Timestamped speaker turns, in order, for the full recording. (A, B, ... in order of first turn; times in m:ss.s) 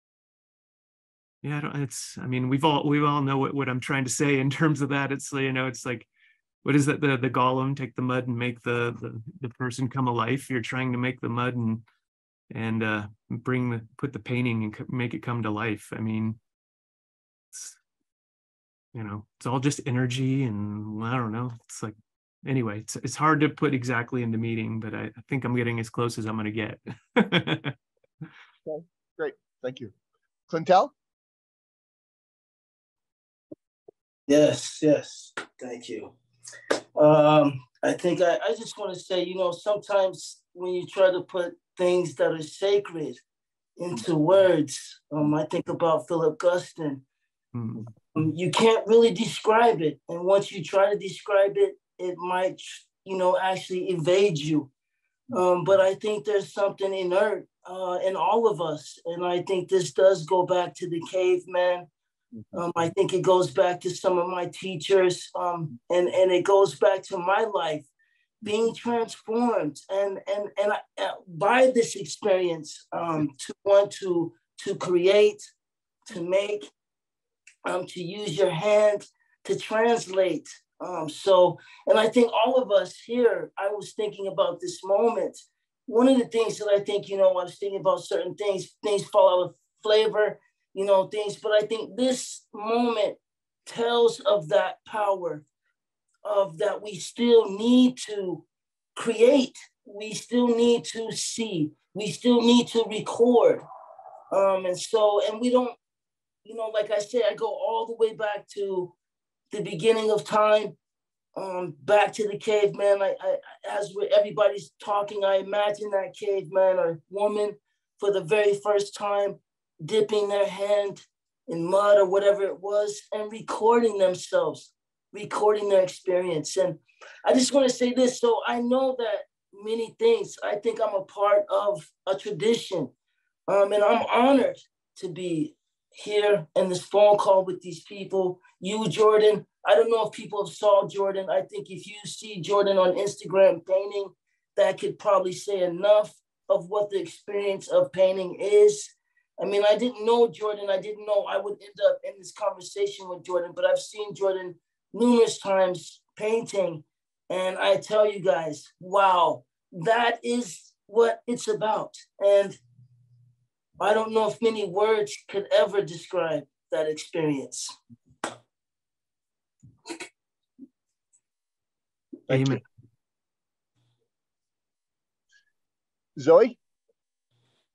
0:01.4-0:06.1 A
0:06.6-0:11.8 A
0:12.5-0:16.4 A
0:18.9-0:27.8 A
0:28.7-0:29.9 B
0:30.5-0:30.9 B
0:34.3-0:36.1 C
0:37.0-0:43.2 C
0:43.8-0:47.0 C
0:47.5-0:47.9 A
0:48.1-0:54.7 C
0:55.3-1:01.9 C
1:02.5-1:07.9 C
1:08.4-1:15.5 C
1:16.1-1:16.7 C
1:17.7-1:35.4 C
1:36.2-1:43.6 C
1:44.3-1:45.8 C
1:46.4-1:48.9 C
1:49.5-1:50.8 C
1:51.4-2:12.9 C
2:13.5-2:42.6 C
2:43.8-2:47.8 C
2:52.3-2:52.6 B
2:52.3-2:52.6 A
2:56.2-2:56.6 B